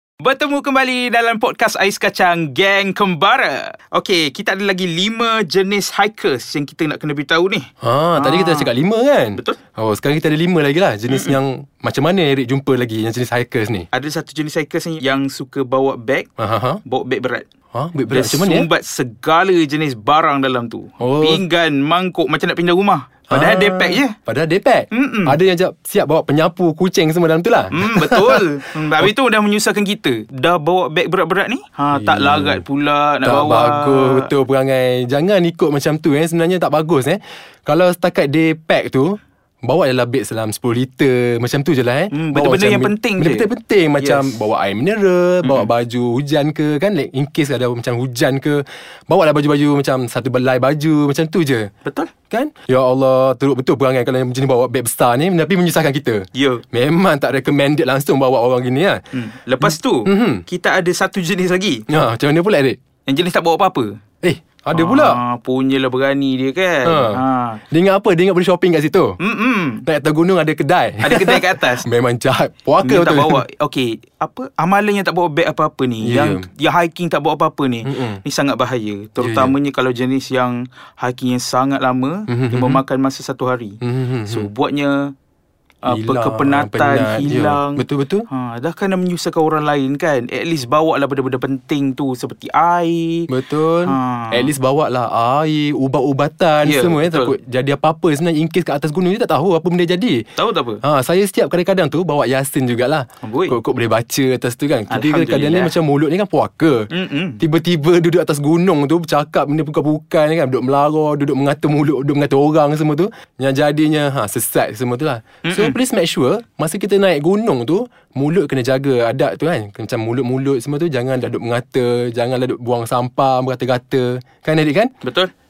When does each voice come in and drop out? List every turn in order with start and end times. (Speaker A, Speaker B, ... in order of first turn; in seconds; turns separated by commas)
Speaker A: 0.2-8.7, Speaker B: 7.8-13.9, Speaker A: 11.1-11.4, Speaker A: 13.9-16.3, Speaker B: 16.4-16.8, Speaker A: 16.8-17.5, Speaker B: 17.7-18.7, Speaker A: 18.1-24.1, Speaker B: 21.0-21.4, Speaker B: 23.3-29.1, Speaker A: 24.9-25.4, Speaker A: 27.7-34.3, Speaker B: 31.9-32.6, Speaker B: 33.2-51.7, Speaker A: 42.1-44.4, Speaker A: 45.4-45.7, Speaker A: 51.8-52.1, Speaker B: 52.3-59.0, Speaker A: 56.3-56.6, Speaker A: 59.1-61.9, Speaker B: 59.6-60.4, Speaker B: 61.9-62.8, Speaker A: 63.0-63.9, Speaker B: 64.2-65.2, Speaker A: 64.7-67.6, Speaker B: 66.8-69.2, Speaker A: 69.2-69.8, Speaker B: 69.8-73.4, Speaker A: 71.0-71.8, Speaker A: 72.8-85.1, Speaker B: 76.0-76.5, Speaker B: 77.8-78.2, Speaker B: 79.2-79.5, Speaker B: 82.3-82.8, Speaker B: 83.8-84.5, Speaker A: 85.8-93.3, Speaker B: 85.9-88.3, Speaker B: 93.3-100.3, Speaker A: 93.8-94.5, Speaker A: 96.6-97.3, Speaker A: 100.4-100.8, Speaker B: 100.8-124.9, Speaker A: 103.2-103.6, Speaker A: 104.9-105.8, Speaker A: 106.9-107.4, Speaker A: 115.4-115.8, Speaker A: 125.0-125.3